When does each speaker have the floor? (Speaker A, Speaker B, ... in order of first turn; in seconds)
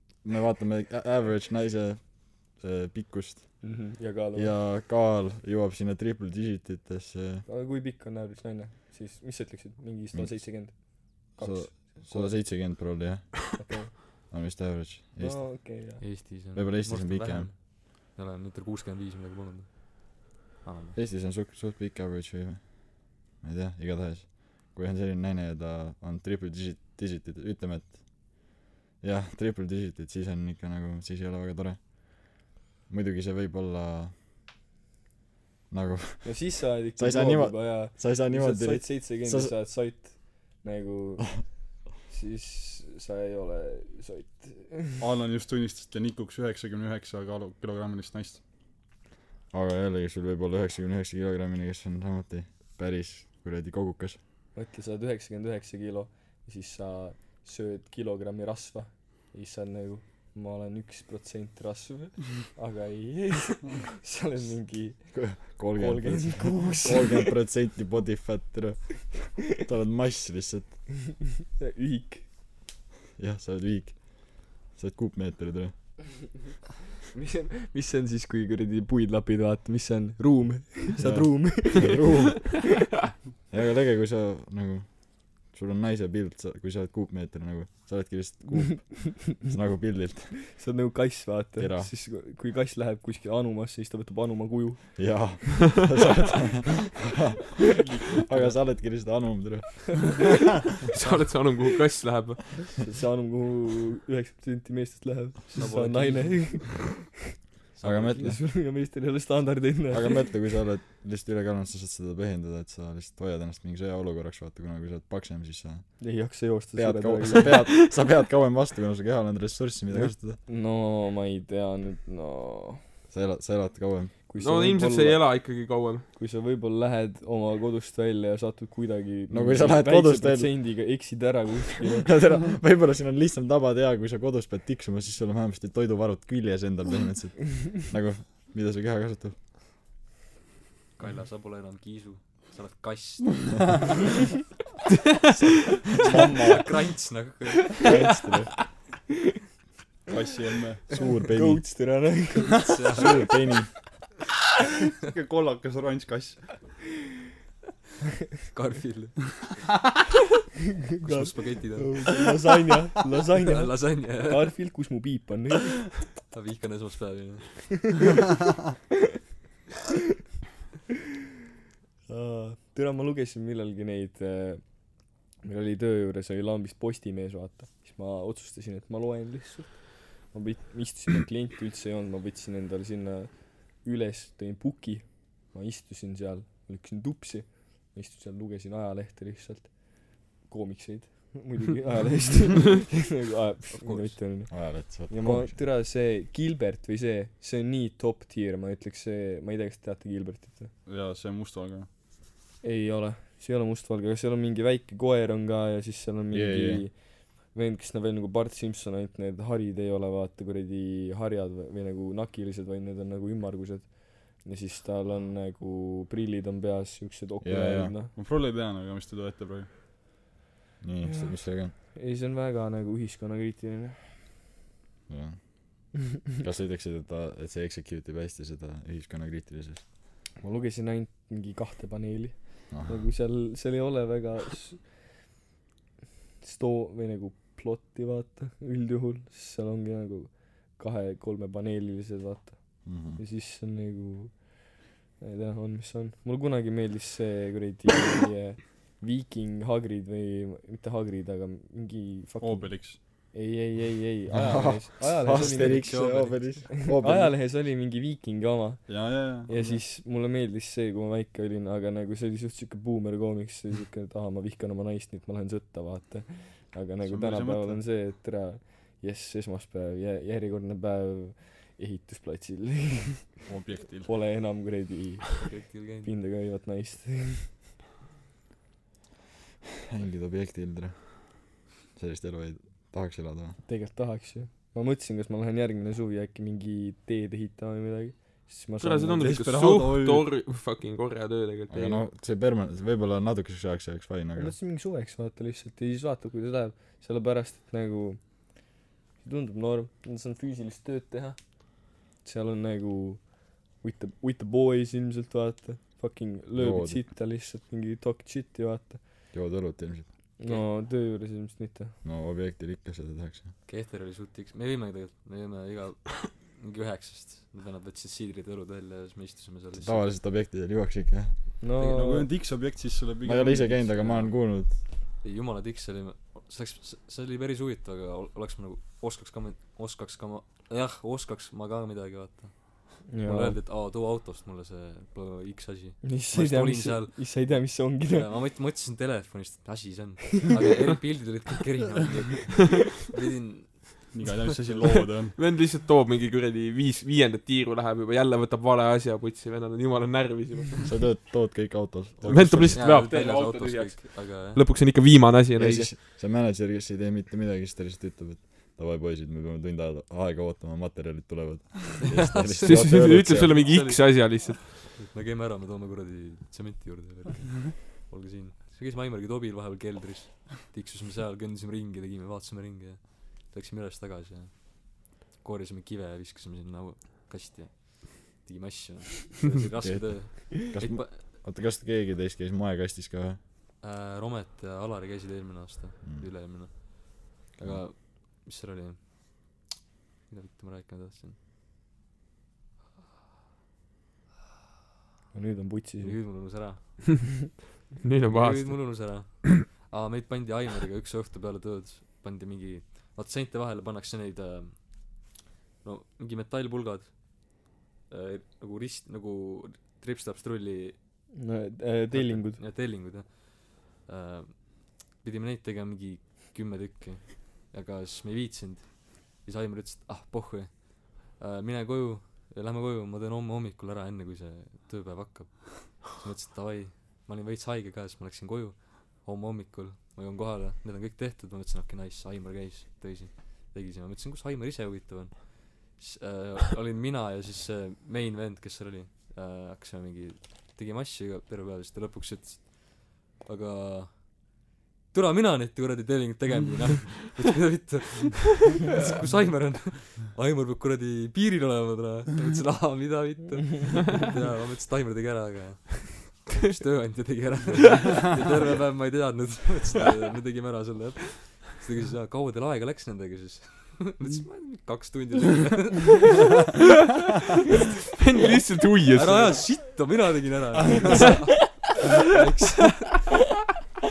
Speaker A: 0.2-3.7, 4.3-7.5, 10.1-10.7, 11.4-13.6, 14.3-15.6, 16.5-17.5, 20.9-34.1, 35.7-39.5, 49.5-54.2, 65.1-70.8, 73.2-76.0, 81.0-82.8, 83.5-90.4, 91.6-91.9, 95.0-97.3, 98.1-100.2, 107.8-108.4, 109.9-116.0, 116.7-120.4, 123.1-124.1, 129.3-130.7, 132.0-139.4, 147.8-148.6, 150.9-151.7, 152.9-153.9, 194.5-195.6, 206.3-206.8, 217.4-217.9, 220.8-221.7, 225.1-229.8, 232.7-233.0, 242.8-243.2, 254.3-257.4, 279.9-283.6, 291.7-294.5, 306.5-307.0, 309.3-310.1, 312.0-313.5, 319.8-321.6, 323.2-324.8, 350.8-352.9, 355.5-363.9, 379.8-383.4, 386.0-386.3, 387.6-387.8
Speaker B: 3.6-4.5, 7.5-12.4, 13.5-14.3, 15.2-16.0, 36.2-45.0, 54.5-67.3, 71.5-72.2, 77.1-82.1, 90.5-95.0, 102.8-107.0, 108.1-110.3, 116.0-117.6, 120.0-122.8, 124.3-125.5, 126.1-132.1, 151.3-152.7, 161.0-165.9, 172.1-174.8, 175.4-200.7, 202.6-218.1, 221.1-224.2, 230.4-234.9, 236.4-273.4, 274.0-277.5, 283.6-289.3, 294.4-298.7, 299.2-309.0, 310.4-312.0, 321.6-322.3, 333.1-333.6, 336.0-338.3, 395.3-396.6, 411.3-412.6
Speaker C: 16.0-21.0, 101.0-101.3, 105.5-106.7, 107.7-108.4, 141.0-143.9, 145.9-147.9, 152.6-153.4, 158.5-159.2, 161.0-162.1, 163.4-164.6, 166.3-167.9, 193.7-194.2, 255.2-256.9, 275.4-276.1, 310.4-310.7, 313.6-320.1, 321.8-322.3, 325.2-345.0, 352.2-354.7, 362.0-381.4, 383.8-389.6, 390.3-391.4, 396.0-397.0, 398.2-405.3, 405.8-411.0, 412.1-444.6, 445.1-466.3, 469.0-473.3
Speaker D: 45.0-48.4, 150.1-150.8, 155.1-156.4, 200.8-201.9, 218.1-219.7, 252.4-253.0, 258.9-259.8, 267.0-267.8, 273.4-274.1, 289.2-290.3, 321.9-324.2, 344.1-345.4
Speaker E: 100.9-102.8, 124.4-126.0, 288.8-292.0, 345.3-351.0, 352.3-355.9, 362.6-364.8, 398.0-399.5, 468.1-469.7, 471.1-471.6